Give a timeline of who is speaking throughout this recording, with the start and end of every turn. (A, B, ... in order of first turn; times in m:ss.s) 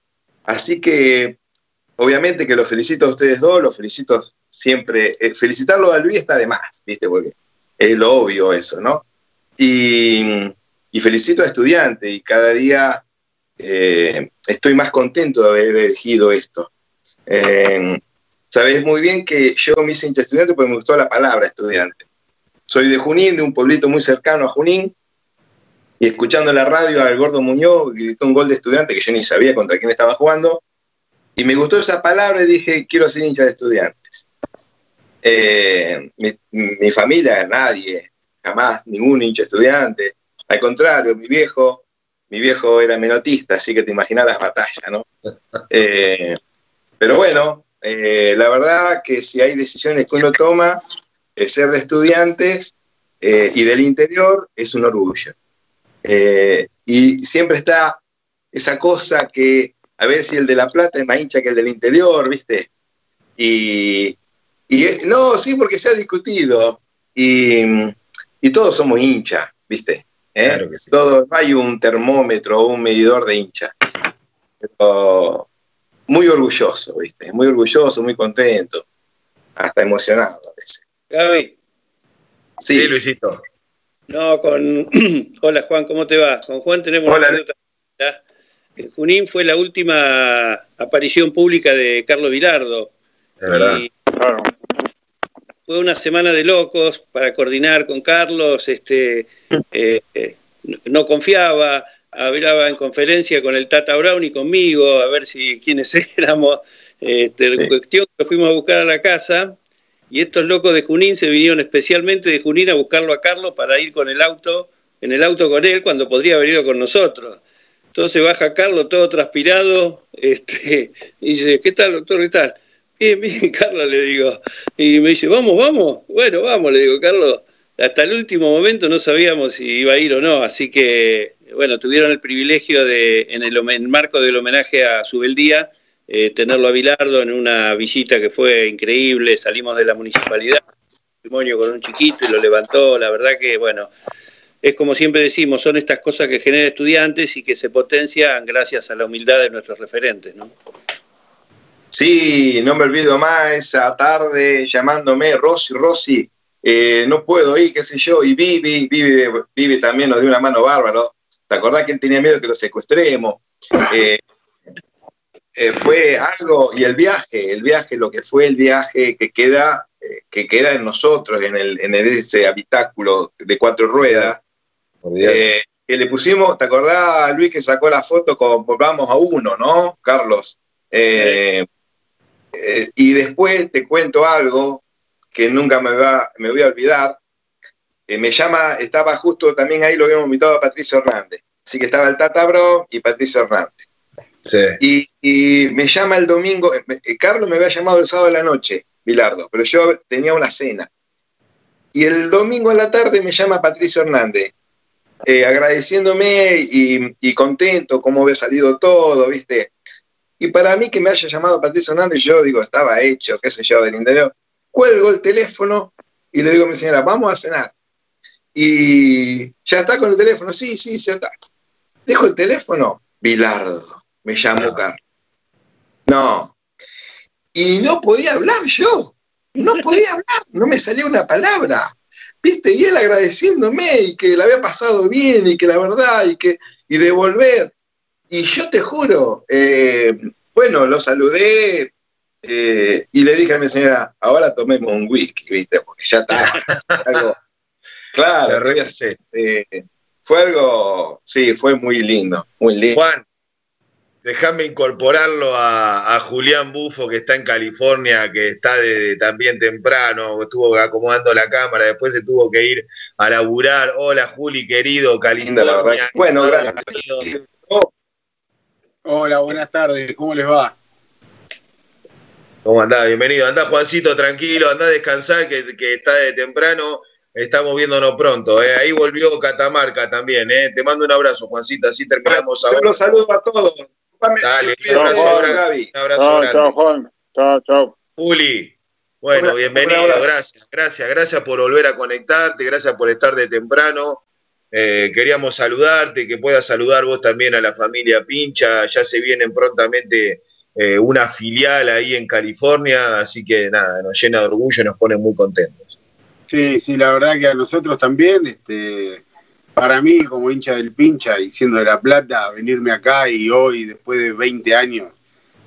0:00.4-0:01.4 A
0:02.0-0:09.0 A
0:09.6-0:13.0 A
0:13.6-0:16.7 A
0:17.3-0:18.0 A
0:18.5-0:22.0 A
0:22.7-0:24.9 A
0:26.0-0:30.6 A
0:31.4-0:34.2 A
0:35.2-0:45.0 A
0:45.7-0:46.4 A
0:47.0-0:50.8 A
0:51.4-0:55.3 A
0:56.0-0:58.0 A
0:58.5-1:02.7 A
1:03.4-1:04.2 A
1:04.7-1:13.7 A
1:10.4-1:10.9 B
1:14.6-1:15.4 A
1:16.1-1:18.8 A
1:19.6-1:20.8 A
1:21.1-1:21.5 C
1:22.6-1:22.9 A
1:22.7-1:23.4 B
1:24.1-1:28.2 C
1:28.8-1:32.9 C
1:33.4-1:33.8 B
1:33.5-1:33.9 C
1:34.2-1:34.5 D
1:35.7-1:49.5 C
1:50.1-1:57.4 C
1:57.9-2:20.6 C
2:21.2-2:23.9 C
2:24.6-2:30.5 C
2:31.9-2:44.2 A
2:45.5-2:54.4 A
2:55.0-2:55.5 B
2:55.2-3:01.6 A
3:02.5-3:04.8 A
3:05.3-3:07.2 A
3:08.1-3:13.8 A
3:14.4-3:14.8 B
3:14.8-3:20.9 A
3:21.9-3:24.5 A
3:25.2-3:29.7 A
3:30.4-3:37.7 A
3:38.5-3:41.3 A
3:42.0-3:45.0 A
3:46.1-3:46.5 A
3:47.5-3:57.7 A
3:58.3-4:01.9 A
4:02.4-4:07.3 A
4:06.3-4:07.2 B
4:08.1-4:13.0 A
4:08.5-4:09.2 B
4:12.9-4:13.2 B
4:14.2-4:27.3 B
4:25.4-4:27.9 A
4:29.0-4:30.7 E
4:32.6-4:43.2 B
4:42.2-4:45.9 A
4:44.4-4:46.8 B
4:44.9-4:45.6 D
4:46.1-4:47.9 D
4:48.2-4:54.2 B
4:49.3-4:50.3 A
4:54.7-5:05.9 B
5:06.5-5:09.2 E
5:09.8-5:15.1 E